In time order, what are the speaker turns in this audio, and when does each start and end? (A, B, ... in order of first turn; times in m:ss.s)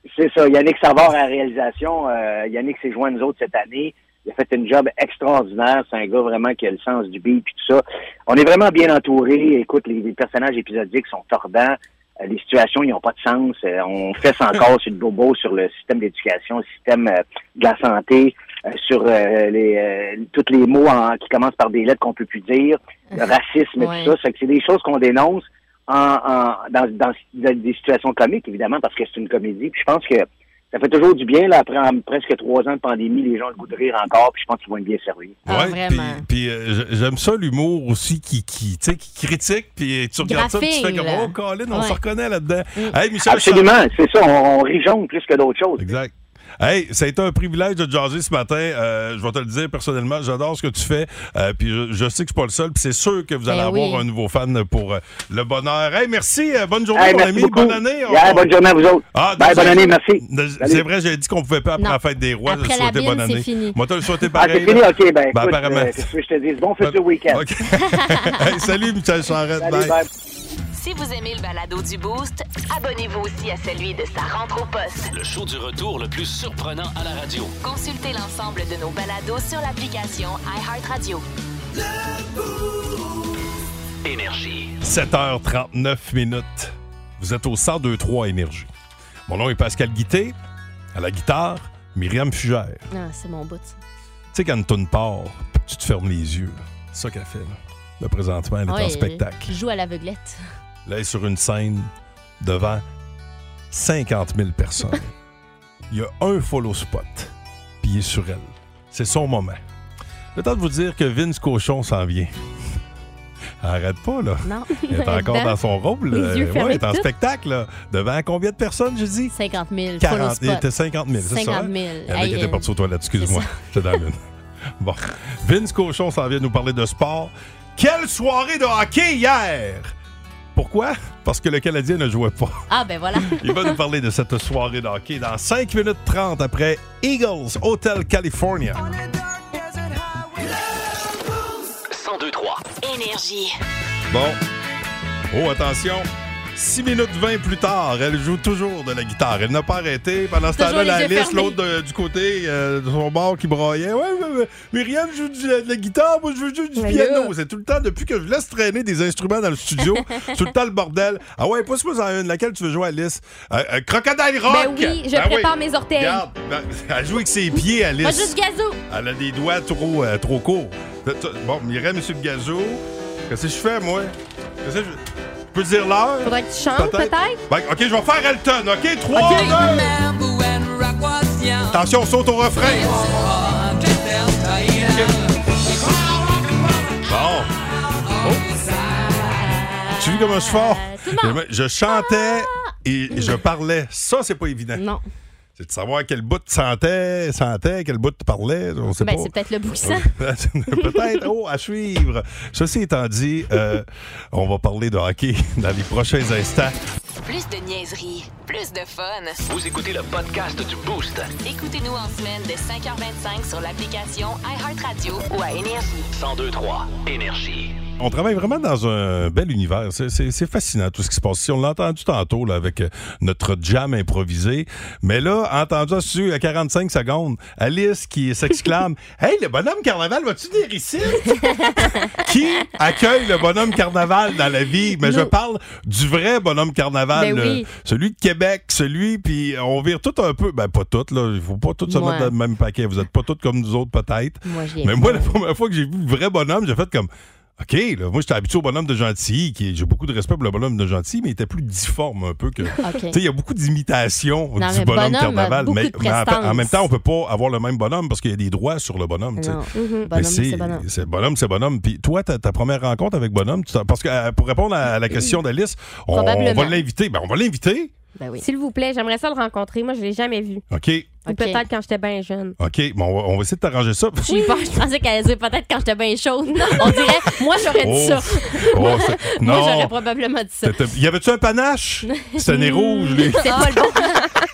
0:00.1-0:35.4 A
0:23.8-0:24.1 B
0:35.4-0:43.8 C
0:35.5-0:36.2 B
0:40.2-0:42.0 B
0:43.2-0:45.8 A
0:45.8-0:58.5 C
0:53.5-0:54.0 B
0:56.9-1:00.8 A
0:59.1-1:06.1 C
1:01.8-1:03.8 B
1:04.4-1:07.4 A
1:06.8-1:10.0 C
1:07.9-1:08.4 B
1:09.6-1:10.0 A
1:10.7-1:15.1 D
1:15.1-1:17.6 E
1:17.6-1:21.2 D
1:24.0-1:24.8 E
1:24.8-1:28.7 C
1:29.3-1:30.4 C
1:30.9-1:32.8 C
1:32.9-1:33.8 B
1:34.3-1:39.5 C
1:38.7-1:40.4 B
1:40.8-1:42.8 C
1:43.7-1:45.1 C
1:45.9-1:49.6 C
1:50.3-1:52.3 C
1:53.6-1:59.3 C
1:54.4-1:55.6 B
1:56.1-1:57.0 F
1:59.3-2:00.6 B
2:00.0-2:04.2 C
2:01.2-2:03.5 B
2:04.8-2:09.9 C
2:10.5-2:12.6 C
2:12.7-2:13.8 B
2:13.2-2:18.8 C
2:21.9-2:22.7 E
2:22.8-2:23.6 D
2:24.1-2:24.4 C
2:25.3-2:48.4 C
2:30.5-2:31.6 B
2:36.8-2:37.3 F
2:44.5-2:46.2 F
2:48.0-2:48.8 B
2:48.9-2:55.0 C
2:55.5-3:00.0 C
2:56.2-2:57.4 F
2:59.2-2:59.5 F
2:59.4-3:01.8 D
3:01.7-3:03.1 C
3:02.6-3:05.1 D
3:04.8-3:05.3 C
3:07.0-3:07.5 C
3:08.2-3:08.4 C
3:09.3-3:12.7 B
3:10.0-3:14.8 C
3:14.8-3:15.0 B
3:15.6-3:26.8 C
3:19.0-3:20.1 B
3:27.2-3:29.4 D
3:29.5-3:31.3 E
3:31.4-3:36.1 D
3:36.1-3:37.8 E
3:38.0-4:27.9 C
3:51.5-3:52.0 B
3:57.2-3:57.6 F
4:01.9-4:02.3 B
4:04.4-4:05.3 B
4:12.8-4:13.1 B
4:14.6-4:16.8 B
4:19.4-4:20.8 B
4:19.7-4:20.1 F
4:26.1-4:26.8 B
4:28.2-4:28.4 B
4:28.4-4:30.6 F
4:30.7-4:31.2 C
4:31.2-4:31.6 B
4:31.2-4:32.6 F
4:32.6-4:34.8 C
4:34.2-4:40.8 B
4:37.6-4:39.9 C
4:40.6-4:43.7 C
4:42.2-4:44.1 B
4:43.6-4:43.8 F